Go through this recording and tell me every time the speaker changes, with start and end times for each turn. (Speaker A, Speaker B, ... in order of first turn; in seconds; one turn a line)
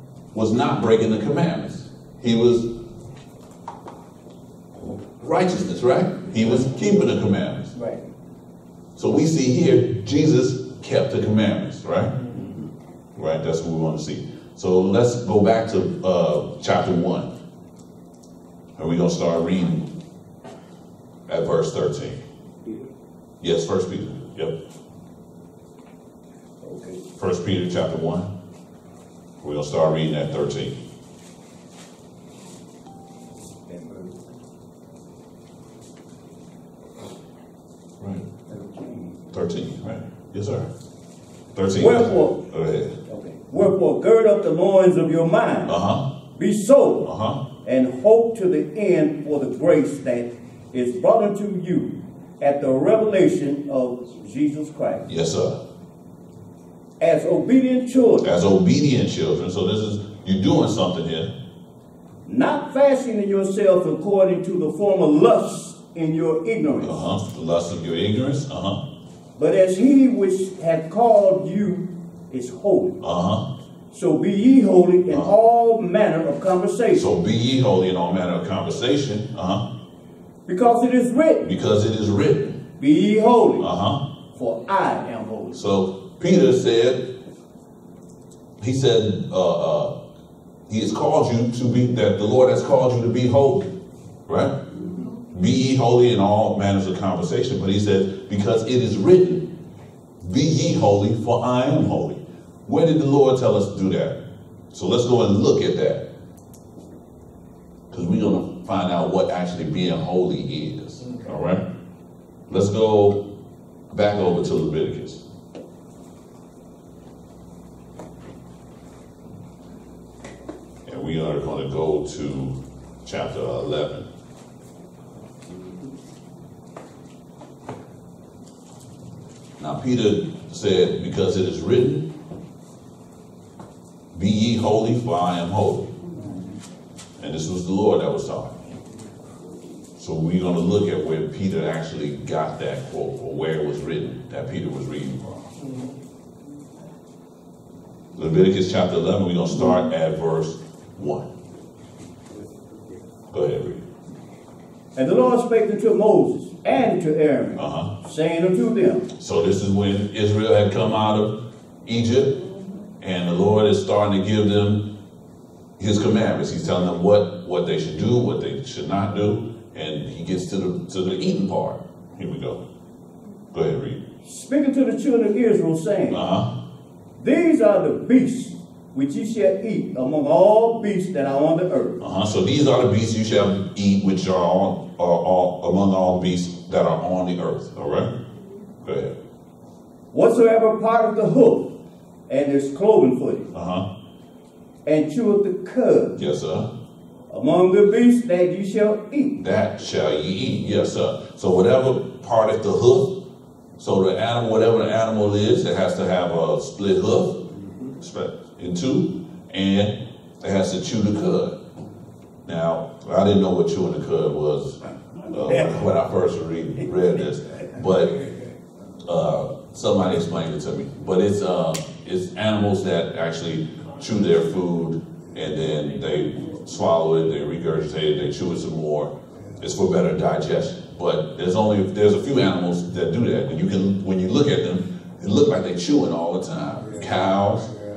Speaker A: 0.3-2.7
Speaker A: 5.2-7.7
Speaker B: 7.8-8.0
Speaker A: 8.9-12.1
Speaker A: 13.2-17.3
Speaker A: 18.8-19.9
Speaker A: 21.3-22.2
Speaker A: 23.4-24.6
Speaker B: 26.6-27.0
Speaker A: 27.2-28.3
Speaker A: 29.4-30.8
Speaker B: 33.7-34.0
Speaker B: 38.5-39.1
Speaker A: 39.3-40.7
Speaker A: 41.5-42.9
Speaker B: 41.7-42.4
Speaker B: 43.1-45.8
Speaker A: 45.7-46.0
Speaker B: 46.4-47.1
Speaker A: 47.0-47.4
Speaker B: 47.6-55.1
Speaker A: 55.1-55.6
Speaker B: 57.0-58.3
Speaker A: 58.2-61.3
Speaker B: 62.2-67.0
Speaker A: 66.8-68.8
Speaker B: 69.4-73.0
Speaker A: 73.0-73.5
Speaker B: 73.9-77.1
Speaker A: 76.9-79.6
Speaker B: 80.5-81.5
Speaker A: 81.4-82.6
Speaker B: 82.8-83.7
Speaker A: 83.6-84.0
Speaker B: 84.3-85.6
Speaker A: 85.5-87.1
Speaker A: 88.6-89.9
Speaker A: 90.7-93.7
Speaker A: 94.3-94.5
Speaker A: 95.3-99.5
Speaker A: 100.2-104.2
Speaker A: 104.7-106.0
Speaker A: 107.9-111.6
Speaker A: 112.5-113.2
Speaker A: 113.9-115.2
Speaker A: 120.8-124.1
Speaker A: 129.6-132.1
Speaker A: 134.1-135.9
Speaker A: 137.2-138.6
Speaker A: 140.0-145.5
Speaker A: 148.2-151.3
Speaker A: 153.3-153.8
Speaker B: 154.9-159.1
Speaker A: 157.6-157.9
Speaker A: 159.2-161.3
Speaker A: 161.8-162.4
Speaker A: 163.0-164.9
Speaker A: 165.8-172.6
Speaker A: 173.5-174.0
Speaker B: 174.2-176.2
Speaker A: 176.1-176.5
Speaker B: 177.2-182.0
Speaker A: 182.0-188.1
Speaker A: 188.8-189.1
Speaker B: 190.1-191.7
Speaker B: 192.3-193.5
Speaker A: 193.5-193.8
Speaker B: 194.8-196.2
Speaker A: 196.2-196.7
Speaker B: 197.3-199.4
Speaker A: 199.4-203.2
Speaker A: 203.8-207.4
Speaker A: 208.0-211.6
Speaker A: 212.4-218.2
Speaker A: 219.0-237.7